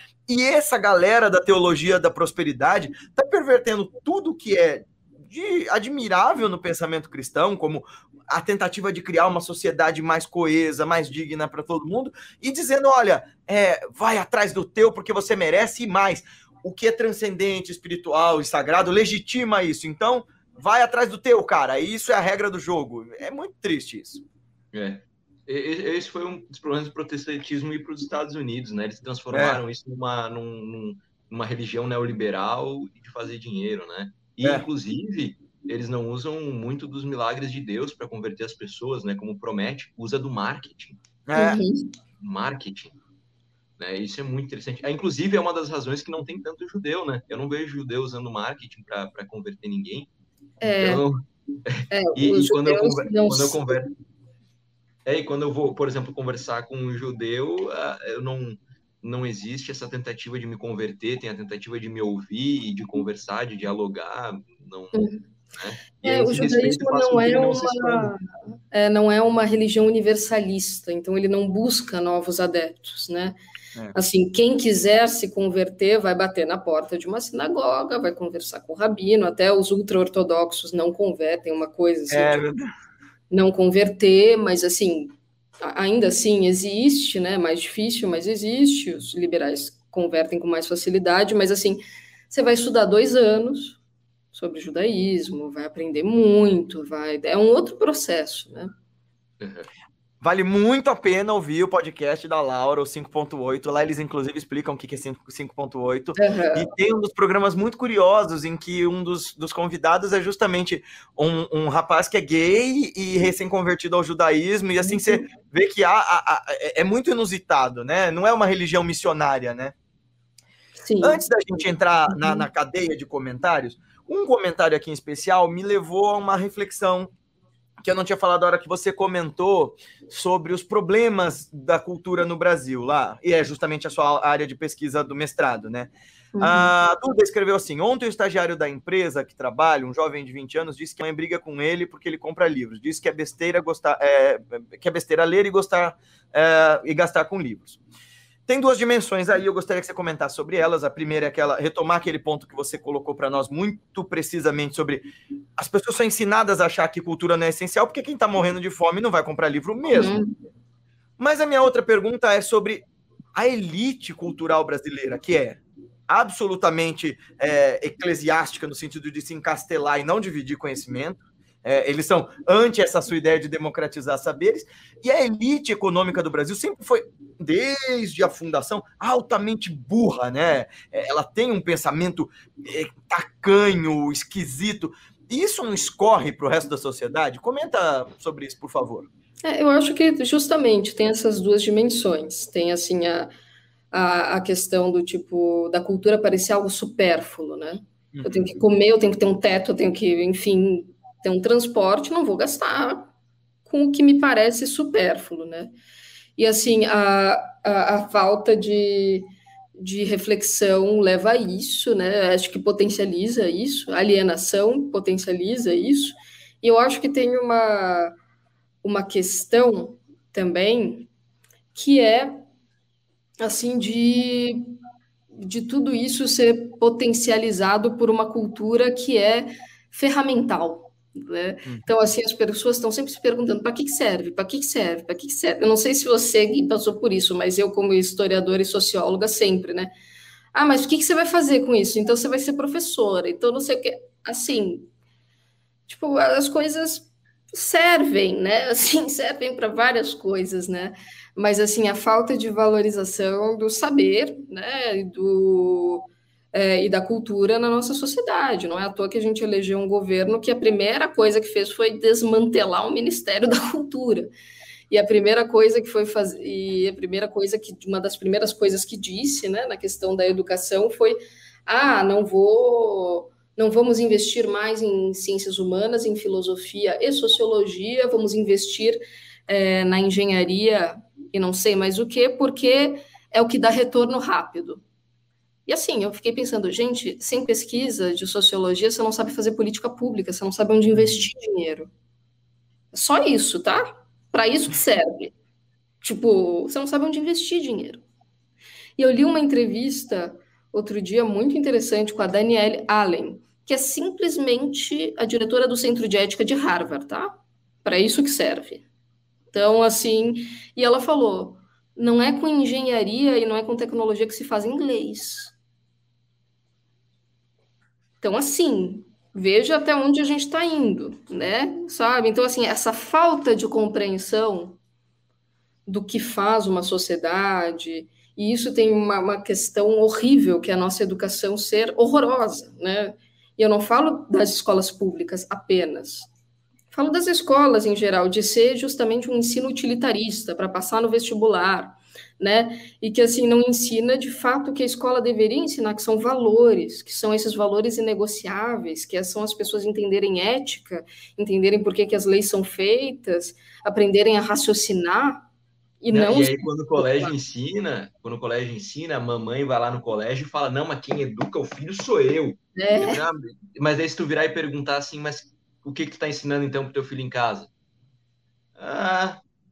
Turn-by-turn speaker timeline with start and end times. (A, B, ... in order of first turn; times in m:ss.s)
0:00.3-0:24.2 A
0:24.7-0:41.0 B
0:29.3-0:29.6 A
0:41.3-0:41.6 A
0:41.4-0:41.9 C
0:42.2-0:43.0 B
0:43.8-0:50.1 B
0:50.6-0:51.0 C
0:50.8-0:53.9 B
0:51.9-0:53.8 C
0:55.1-1:08.1 B
1:04.9-1:05.2 C
1:06.0-1:08.2 C
1:08.7-1:13.4 C
1:13.9-1:22.4 C
1:22.1-1:22.7 A
1:23.3-1:33.8 C
1:34.3-1:38.7 C
1:39.4-1:39.7 B
1:40.2-1:59.7 A
1:46.2-1:46.7 C
1:54.8-1:55.2 C
2:00.8-2:01.2 C
2:01.0-2:07.1 A
2:02.1-2:02.5 C
2:07.8-2:27.8 A
2:16.3-2:16.7 C
2:28.5-2:40.2 A
2:39.9-2:40.3 C
2:41.2-3:09.1 A
3:09.4-3:13.3 C
3:13.9-3:23.1 C
3:18.1-3:18.5 A
3:23.7-3:25.7 C
3:26.4-3:38.2 C
3:38.8-3:41.1 C
3:41.8-3:42.4 C
3:43.4-3:44.7 C
3:45.3-3:59.9 C
4:00.5-4:04.9 C
4:05.9-4:24.3 C
4:24.9-4:44.8 C
4:45.7-4:51.9 C
4:52.9-4:55.3 C
4:56.0-4:58.0 C
4:59.0-5:08.8 C
5:09.5-5:15.5 C
5:18.2-5:24.8 C
5:25.9-5:36.3 C
5:36.9-5:55.5 C
5:56.0-5:57.3 C
5:56.1-6:07.7 B
6:02.8-6:03.2 C
6:08.8-6:09.4 B